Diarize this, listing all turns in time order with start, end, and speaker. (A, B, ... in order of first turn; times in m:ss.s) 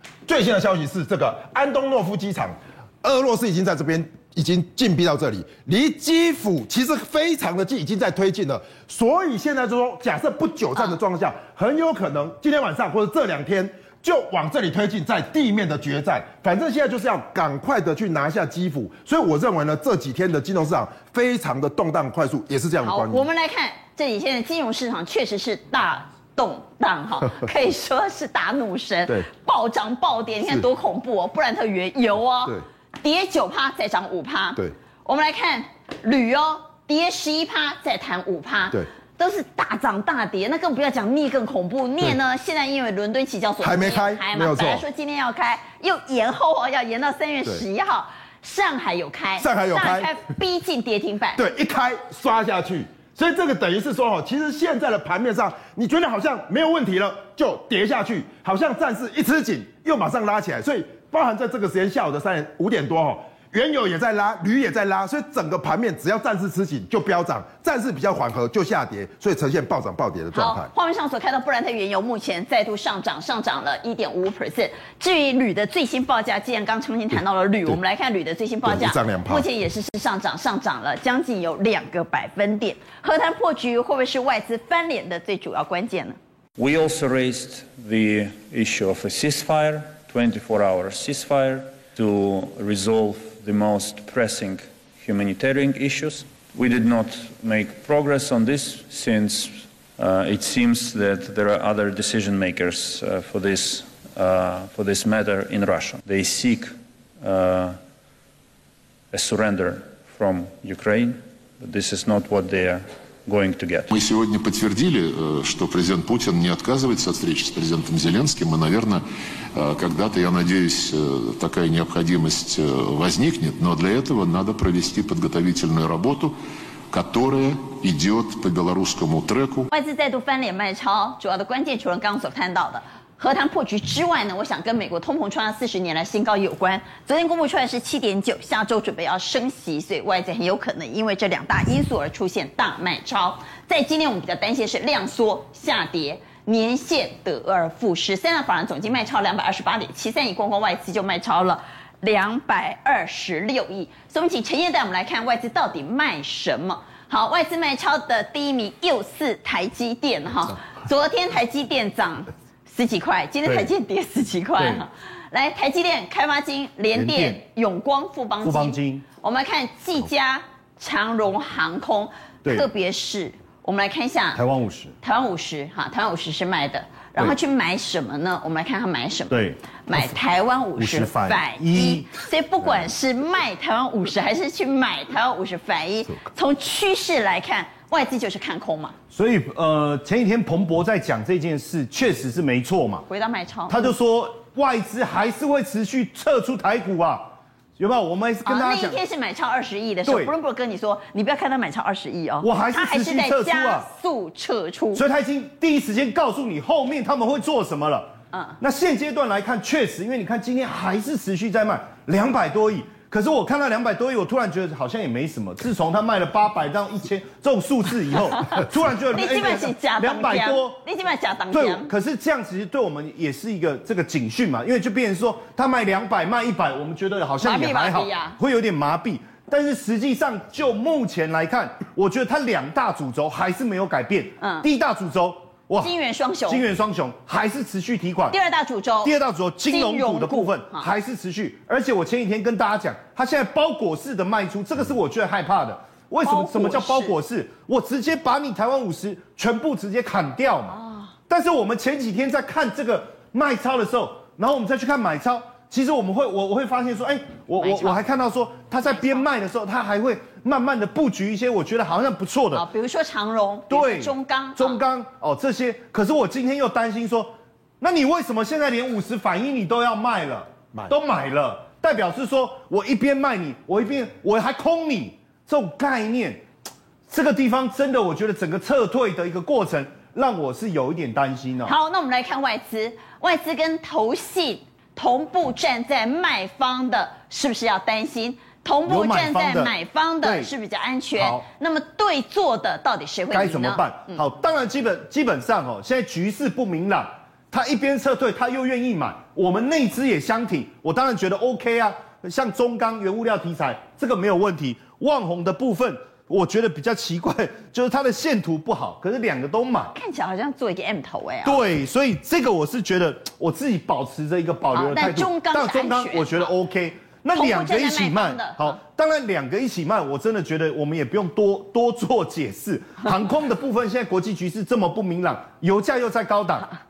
0:00.3-0:23.2 A
0:22.8-0:51.4 B
0:43.6-0:44.8 A
0:49.4-0:50.1 A
0:51.4-1:10.7 A
1:10.3-1:26.2 B
1:18.6-1:19.4 A
1:26.6-1:47.8 C
1:49.1-1:53.9 C
1:53.9-1:59.0 D
1:59.6-2:06.4 D
2:06.9-2:09.7 D
2:09.7-2:54.4 B
2:46.9-2:47.4 E
2:48.4-2:49.0 E
2:54.3-2:54.9 E
2:55.0-3:09.0 B
2:59.3-3:00.2 E
3:00.8-3:02.2 E
3:09.1-3:13.0 E
3:13.1-3:13.9 B
3:13.7-3:19.0 E
3:18.4-3:25.0 B
3:20.0-3:20.3 E
3:22.4-3:23.8 E
3:24.9-3:40.8 E
3:28.3-3:28.6 B
3:39.1-3:41.9 B
3:41.5-3:55.9 E
3:47.4-3:48.4 B
3:54.4-3:54.7 B
3:55.8-3:56.6 B
3:56.5-3:58.4 E
3:58.3-3:59.1 B
3:59.0-4:22.6 E
3:59.7-4:00.9 B
4:06.2-4:07.2 B
4:10.8-4:11.1 B
4:17.6-4:18.0 B
4:18.8-4:19.2 B
4:22.5-4:24.8 B
4:23.7-4:36.4 E
4:37.1-4:41.7 E
4:41.6-4:54.2 B
4:48.8-4:49.7 E
4:50.2-4:50.5 E
4:51.2-4:51.4 E
4:53.3-5:09.9 E
5:09.9-5:11.6 B
5:11.4-5:26.7 E
5:14.7-5:16.5 B
5:17.3-5:18.7 B